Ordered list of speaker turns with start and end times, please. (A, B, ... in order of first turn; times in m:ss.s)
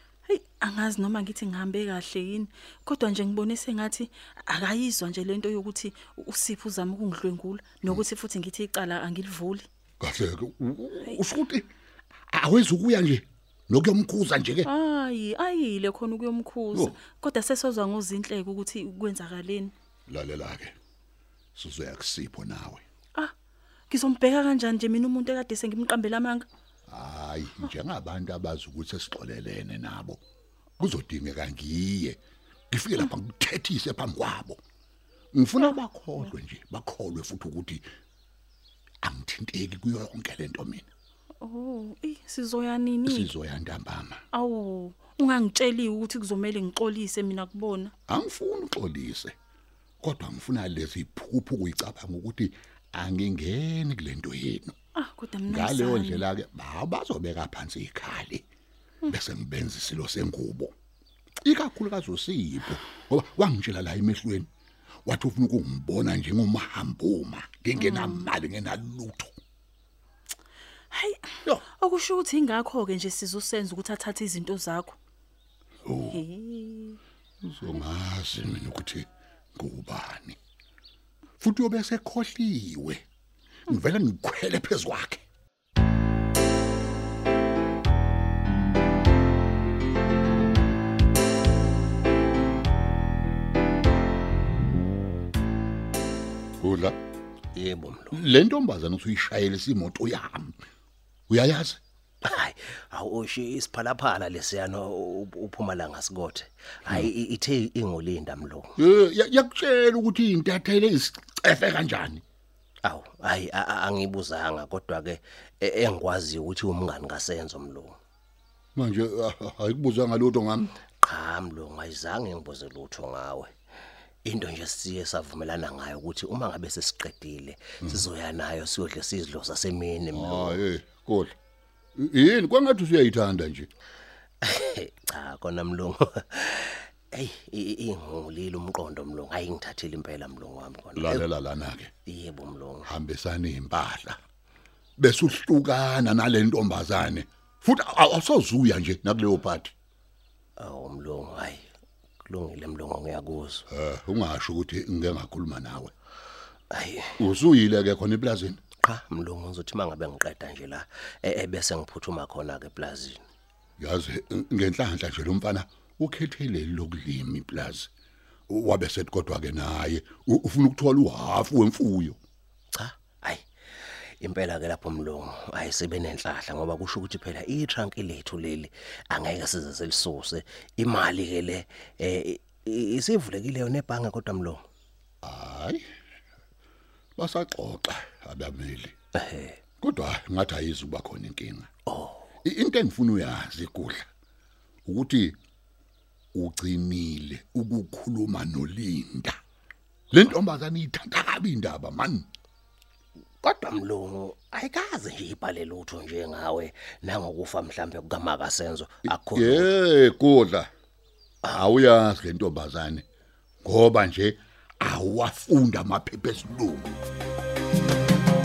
0:00.3-0:09.7 A
0:10.0-0:11.7 B
0:12.3-0:14.7 B
0:14.7-0:19.7 A
0:16.7-0:17.0 B
0:20.1-0:20.7 B
0:21.6-0:22.8 B
0:23.9-0:26.5 A
0:26.9-0:30.2 B
0:30.8-0:32.2 B
0:32.7-0:34.6 B
0:35.3-0:37.8 B
0:39.0-0:40.9 B
0:41.4-0:43.3 A
0:43.1-0:44.2 B
0:44.3-0:47.9 A
0:48.1-0:49.3 B
0:50.0-0:54.8 B
0:55.0-0:56.2 A
0:55.5-0:58.4 B
0:59.1-1:00.7 B
1:01.4-1:04.5 B
1:05.1-1:09.3 B
1:07.8-1:08.2 A
1:10.9-1:11.2 A
1:11.8-1:15.0 A
1:15.9-1:16.2 B
1:16.1-1:17.0 A
1:17.4-1:20.4 B
1:21.4-1:23.0 B
1:23.7-1:25.2 B
1:36.6-1:37.0 B
1:37.6-1:38.1 C
1:38.1-1:40.6 B
1:41.3-1:41.8 B
1:42.2-1:48.7 C
1:48.8-1:52.2 B
1:52.8-1:58.0 C
1:58.8-2:00.7 B
2:01.0-2:03.5 C
2:04.2-2:10.6 C
2:10.1-2:11.3 B
2:12.0-2:13.7 B
2:14.4-2:21.3 C
2:21.0-2:21.9 B
2:22.1-2:22.9 C
2:22.9-2:24.2 B
2:25.0-2:29.7 B
2:30.6-2:31.6 C
2:32.2-2:33.6 C
2:33.7-2:35.9 B
2:36.7-2:37.1 C
2:37.2-2:38.6 B
2:38.8-2:43.2 C
2:43.8-2:47.9 B
2:48.5-2:52.2 B
2:52.8-2:53.4 C
2:54.2-3:04.6 C
3:05.2-3:05.8 B
3:07.2-3:09.0 B
3:09.2-3:09.6 C
3:09.8-3:11.7 B
3:11.9-3:12.3 C
3:12.4-3:14.1 B
3:14.9-3:15.4 B
3:16.3-3:19.4 B
3:20.1-3:22.3 B
3:23.4-3:29.7 C
3:29.0-3:30.7 B
3:31.5-3:33.0 B
3:33.6-3:36.9 B